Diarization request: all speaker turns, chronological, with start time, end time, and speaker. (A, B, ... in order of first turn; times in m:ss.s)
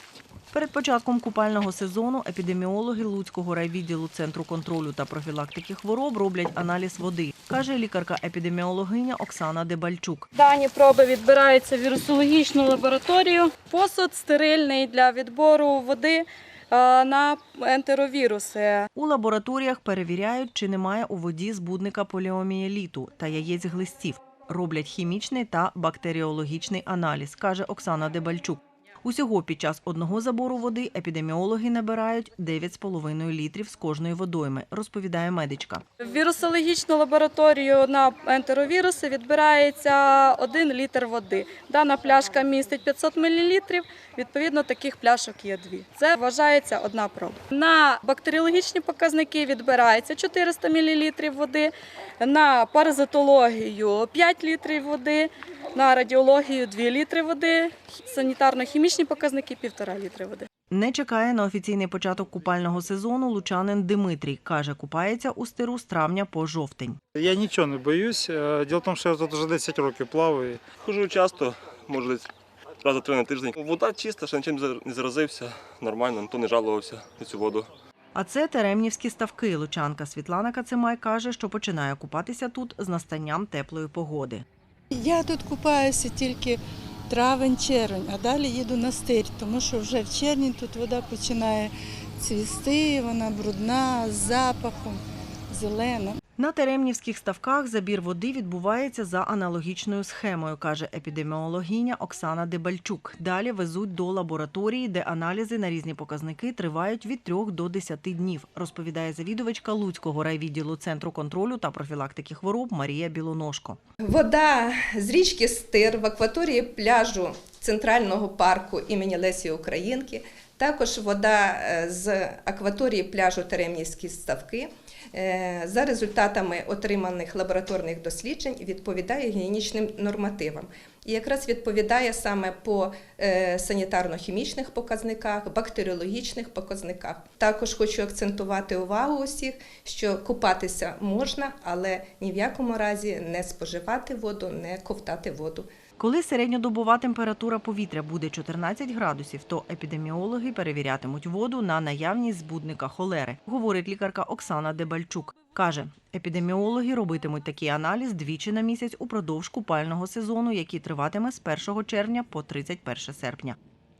0:00.5-0:10.3 A
0:10.3-0:18.9 B
0:19.0-0:35.8 A
0:36.0-1:00.5 B
1:00.7-1:07.0 A
1:07.2-1:10.7 C
1:10.8-1:12.3 D
1:12.8-1:17.7 D
1:18.2-1:24.4 A
1:25.0-1:26.6 E
1:27.1-1:35.0 E
1:35.5-1:36.2 E
1:36.4-1:53.8 A
1:54.0-2:25.7 F
2:26.0-2:43.6 A